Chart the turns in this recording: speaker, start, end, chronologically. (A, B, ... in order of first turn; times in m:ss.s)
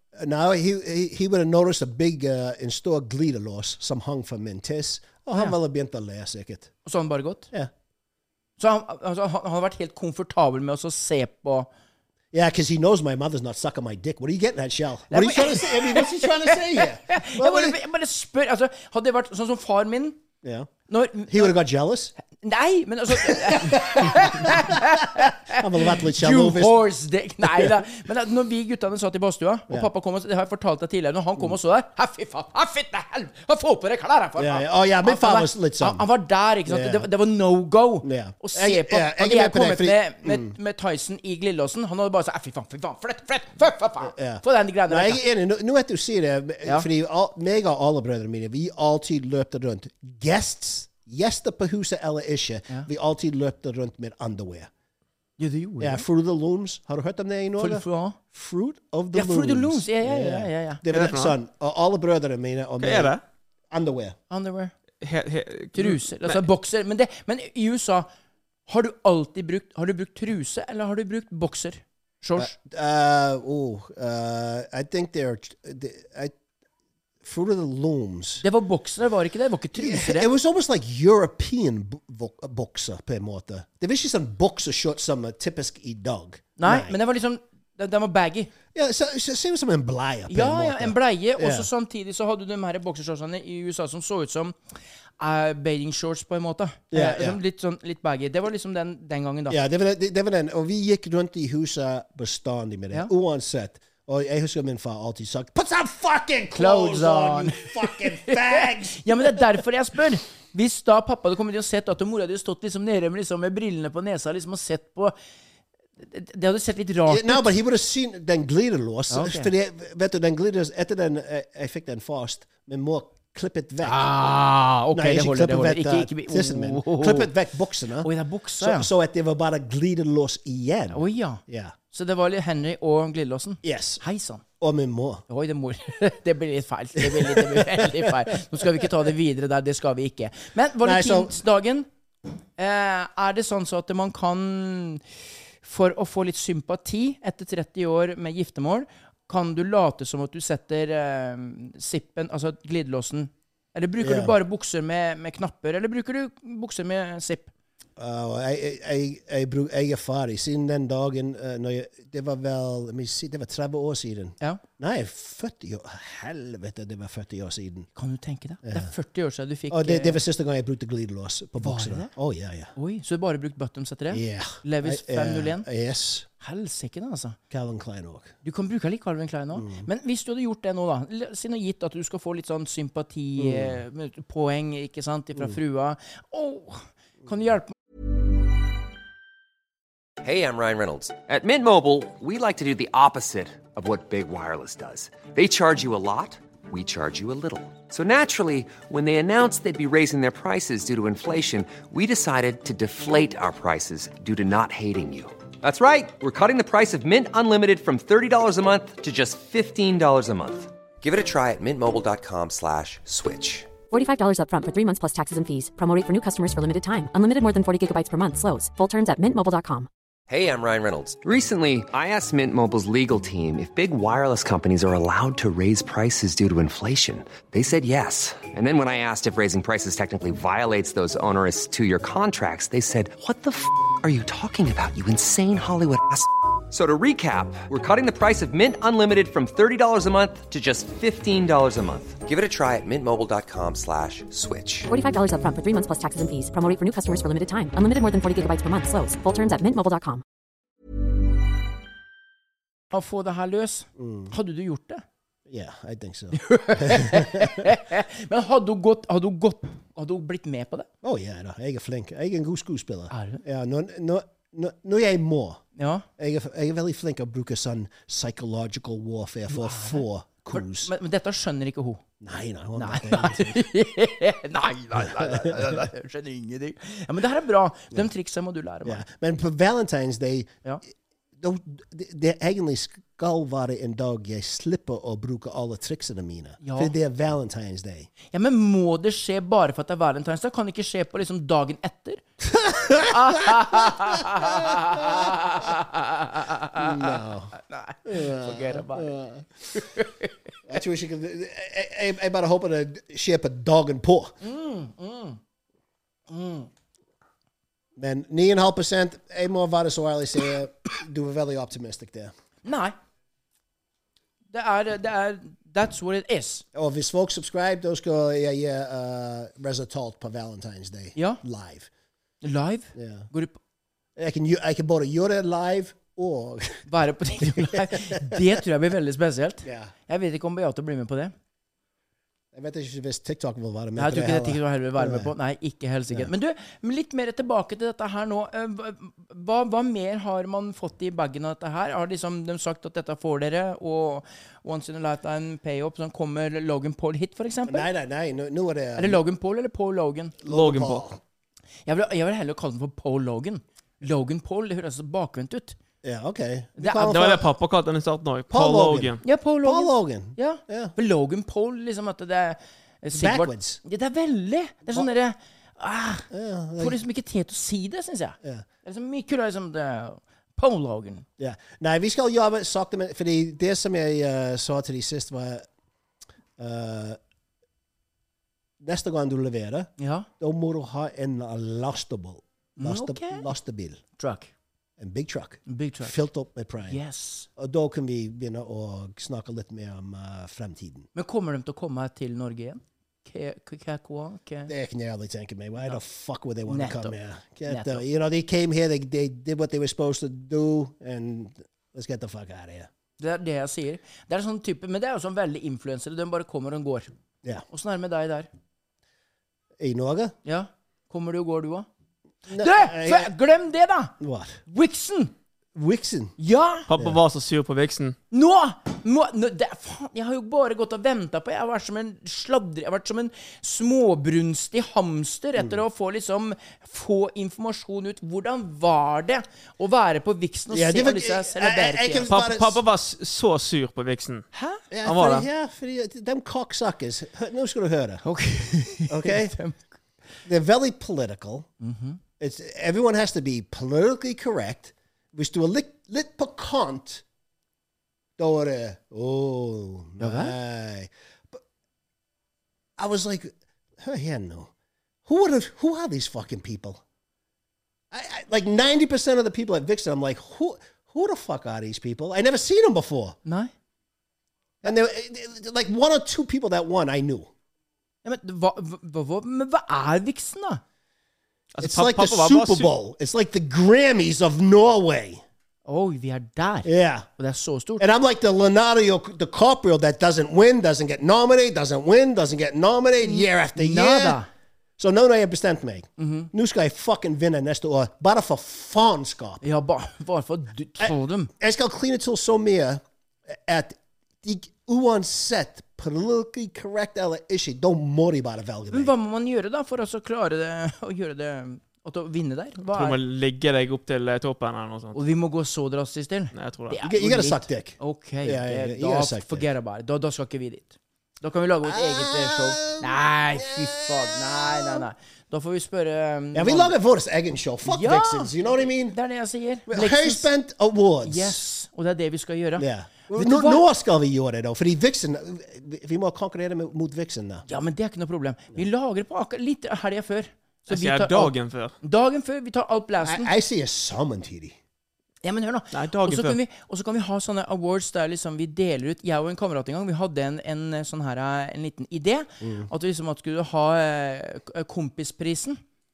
0:00.1-0:06.7 A
0:06.8-0:07.5 B
0:08.6-0:11.7 B
0:12.3-0:17.8 A
0:15.1-0:20.2 B
0:20.4-0:20.7 A
0:20.9-0:21.5 B
0:21.3-0:22.1 A
0:22.3-0:45.2 B
0:23.1-0:26.8 A
0:27.4-0:27.8 A
0:34.4-0:36.0 A
0:36.7-0:37.1 A
0:38.0-0:40.5 A
0:44.0-0:54.7 A
0:55.4-0:56.0 B
0:55.8-1:03.1 A
0:57.6-0:58.2 B
0:59.1-1:00.8 B
1:00.9-1:01.4 C
1:02.8-1:03.2 C
1:03.7-1:04.2 A
1:04.3-1:04.7 B
1:05.0-1:06.4 C
1:05.7-1:08.1 B
1:08.7-1:12.5 B
1:12.4-1:16.3 A
1:17.2-1:18.4 A
1:18.4-1:20.3 B
1:19.7-1:27.0 A
1:26.6-1:28.5 B
1:28.7-1:31.7 A
1:30.3-1:34.6 B
1:35.2-1:39.6 B
1:36.9-1:37.4 A
1:39.5-1:49.6 A
1:46.5-1:55.1 B
1:56.0-1:57.5 B
1:57.1-2:04.0 A
1:59.1-1:59.5 B
2:03.8-2:07.3 B
2:04.9-2:11.7 A
2:08.0-2:08.9 B
2:10.9-2:14.4 B
2:13.6-2:14.0 A
2:14.6-2:15.2 A
2:15.3-2:21.9 B
2:17.0-2:18.8 A
2:20.8-2:21.4 A
2:22.6-2:25.0 B
2:25.6-2:37.5 B
2:34.0-2:34.4 A
2:38.0-2:47.9 A
2:47.9-2:50.2 B
2:48.6-2:48.9 A
2:49.7-2:52.7 A
2:51.6-2:52.1 B
2:52.7-2:55.7 B
2:54.1-2:56.3 A
2:56.4-2:57.4 B
2:57.5-2:58.3 A
2:58.4-3:07.7 B
2:59.5-2:59.9 A
3:03.4-3:03.8 A
3:10.2-3:33.7 D
3:33.9-3:39.9 E
3:40.3-4:04.9 D
4:04.9-4:10.2 E
4:12.9-4:15.0 B
4:14.0-4:14.3 A
4:15.5-4:17.7 A
4:16.3-4:20.9 B
4:21.0-4:25.6 A
4:23.1-4:23.4 B
4:25.8-4:26.0 B
4:26.2-4:30.9 A
4:29.5-4:32.0 B
4:32.2-4:33.6 A
4:32.8-4:39.0 B
4:35.0-4:35.8 A
4:38.8-4:40.6 A
4:41.4-4:48.1 A
4:46.6-4:46.9 B
4:48.3-4:52.2 B
4:52.5-4:55.4 A
4:53.0-4:59.1 B
4:56.8-4:59.5 A
4:59.7-5:00.3 B
5:00.6-5:04.4 A
5:04.4-5:05.4 B
5:06.3-5:06.7 B
5:08.0-5:12.3 A
5:12.6-5:12.9 B
5:14.5-5:16.6 B
5:16.7-5:21.9 A
5:21.1-5:21.4 B
5:22.4-5:23.6 B
5:22.9-5:23.3 A
5:24.2-5:26.8 A
5:26.9-5:31.3 B
5:27.4-5:28.6 A
5:29.6-5:29.9 A
5:32.5-5:35.3 A
5:34.0-5:47.9 B
5:47.7-5:49.2 A
5:49.0-5:50.4 B
5:50.4-5:51.2 A
5:50.5-5:51.0 C
5:51.8-5:55.8 B
5:56.0-5:57.5 A
5:56.8-5:57.1 B
5:57.0-5:59.2 C
5:58.5-6:00.9 A
5:59.2-6:06.3 B
6:03.1-6:03.8 A
6:06.3-6:07.0 A
6:06.8-6:11.2 B
6:11.4-6:15.6 A
6:16.6-6:17.2 A
6:18.8-6:24.0 A
6:20.0-6:20.3 B
6:22.8-6:23.5 B
6:24.2-6:24.5 B
6:25.0-6:27.0 A
6:25.7-6:26.2 B
6:26.8-6:27.5 B
6:27.6-6:31.1 A
6:31.1-6:34.7 B
6:34.7-6:42.9 A
6:36.7-6:37.1 B
6:37.6-6:38.0 B
6:43.2-6:47.1 B
6:47.7-6:48.5 B
6:49.8-6:50.3 A
6:50.4-6:51.9 B
6:52.5-6:54.1 B
6:52.5-6:53.3 A
6:54.2-6:54.6 A
6:54.7-6:55.3 B
6:55.7-6:56.3 A
6:56.4-6:56.9 B
6:56.9-6:58.2 C
6:58.3-7:12.3 B
7:10.7-7:12.8 A
7:12.3-7:14.5 C
7:14.5-7:14.8 B
7:14.9-7:18.2 A
7:15.0-7:15.4 C
7:18.2-7:19.9 B
7:19.1-7:19.6 A
7:20.4-7:21.7 A
7:21.8-7:22.2 B
7:22.4-7:27.2 A
7:28.4-7:31.6 A
7:30.2-7:30.5 B
7:33.0-7:34.7 A
7:35.2-7:37.0 A
7:38.1-7:43.4 A
7:43.4-7:43.7 B
7:44.8-7:47.5 A
7:48.2-7:50.8 B
7:51.7-7:52.9 C
7:51.8-7:55.4 A
7:55.8-7:58.0 B
7:56.8-7:57.3 A
7:58.0-8:04.4 A
8:03.2-8:04.5 B
8:05.0-8:09.6 A
8:06.2-8:06.5 B
8:09.6-8:11.5 B
8:11.0-8:19.1 A
8:18.9-8:23.2 B
8:22.9-8:25.2 C
8:25.1-8:37.0 B
8:26.5-8:27.0 C
8:27.0-8:29.6 A
8:31.8-8:35.0 A
8:36.5-8:39.2 A
8:37.8-8:38.5 B
8:39.0-8:40.5 B
8:39.9-8:41.6 A
8:41.2-8:43.8 B
8:42.8-8:47.6 A
8:47.7-8:53.5 B
8:50.9-8:51.9 C
8:53.2-8:54.8 A
8:55.4-9:05.8 B
8:55.9-8:56.6 C
9:02.6-9:02.9 A